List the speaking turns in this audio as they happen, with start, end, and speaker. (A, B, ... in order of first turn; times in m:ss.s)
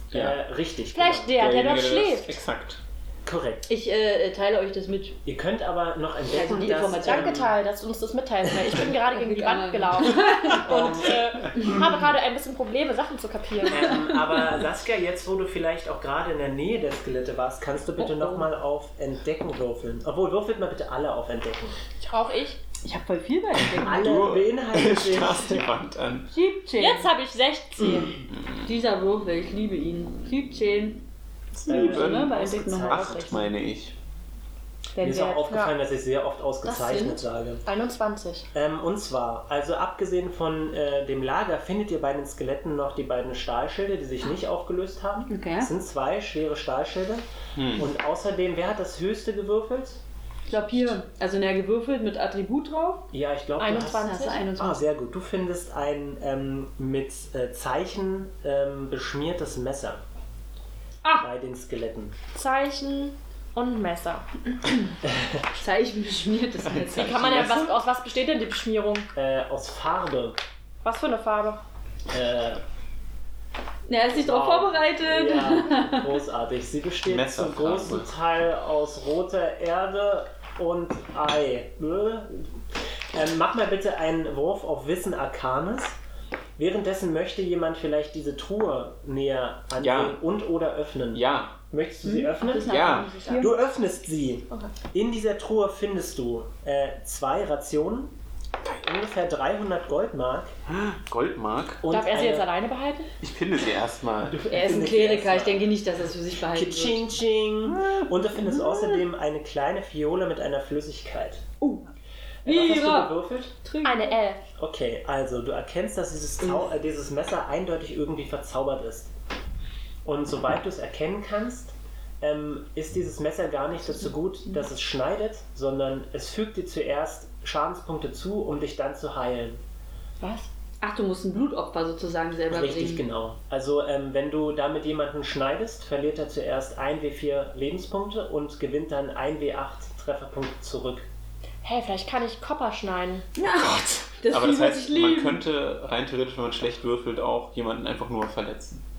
0:00.1-0:01.4 A
0:00.9-0:02.4 B
0:01.3-0:02.8 C
0:03.2-0:03.7 A
0:03.7-0:05.2 D
0:05.2-0:07.5 A
0:06.3-0:07.5 D
0:07.0-0:13.9 B
0:08.8-0:10.9 D
0:10.5-0:11.7 A
0:13.7-0:21.8 A
0:13.7-0:14.5 D
0:18.0-0:18.5 D
0:22.1-0:22.6 B
0:22.8-0:24.1 D
0:23.7-0:26.3 C
0:23.8-0:25.7 A
0:26.3-0:27.1 D
0:26.8-0:28.1 B
0:27.8-0:28.1 D
0:28.6-0:31.0 D
0:31.5-0:34.0 C
0:31.6-0:33.4 D
0:31.6-0:33.4 A
0:35.0-0:35.4 D
0:35.0-0:37.6 A
0:35.1-0:35.7 B
0:36.7-0:37.2 D
0:36.7-0:38.5 B
0:38.5-0:47.2 A
0:45.3-0:45.7 D
0:47.6-0:47.9 C
0:47.7-0:50.0 A
0:50.5-0:53.1 D
0:53.1-1:00.0 A
0:53.6-0:54.4 B
0:53.8-0:54.9 D
1:01.2-1:02.2 A
1:02.3-1:04.2 B
1:04.6-1:04.9 D
1:05.0-1:05.4 A
1:05.6-1:07.6 D
1:06.9-1:07.6 C
1:06.9-1:09.1 B
1:09.1-1:10.4 A
1:10.8-1:11.6 B
1:12.1-1:12.6 A
1:13.9-1:16.1 D
1:14.1-1:26.0 A
1:17.0-1:18.1 C
1:26.6-1:38.1 A
1:29.8-1:30.2 C
1:31.1-1:31.5 C
1:32.0-1:33.5 D
1:32.7-1:33.1 C
1:33.0-1:33.5 B
1:38.6-1:40.5 A
1:40.7-1:41.8 C
1:41.8-1:42.5 A
1:41.9-1:43.1 B
1:43.2-1:44.4 C
1:44.2-1:45.7 A
1:44.5-1:47.1 D
1:46.5-1:51.4 A
1:48.7-1:49.0 D
1:52.4-1:53.5 A
1:52.4-1:54.2 D
1:53.8-1:54.4 B
1:54.6-1:59.1 A
2:00.0-2:09.6 A
2:10.2-2:10.5 B
2:10.8-2:13.0 D
2:12.5-2:21.1 A
2:21.6-2:23.3 B
2:23.4-2:25.4 D
2:24.3-2:28.8 C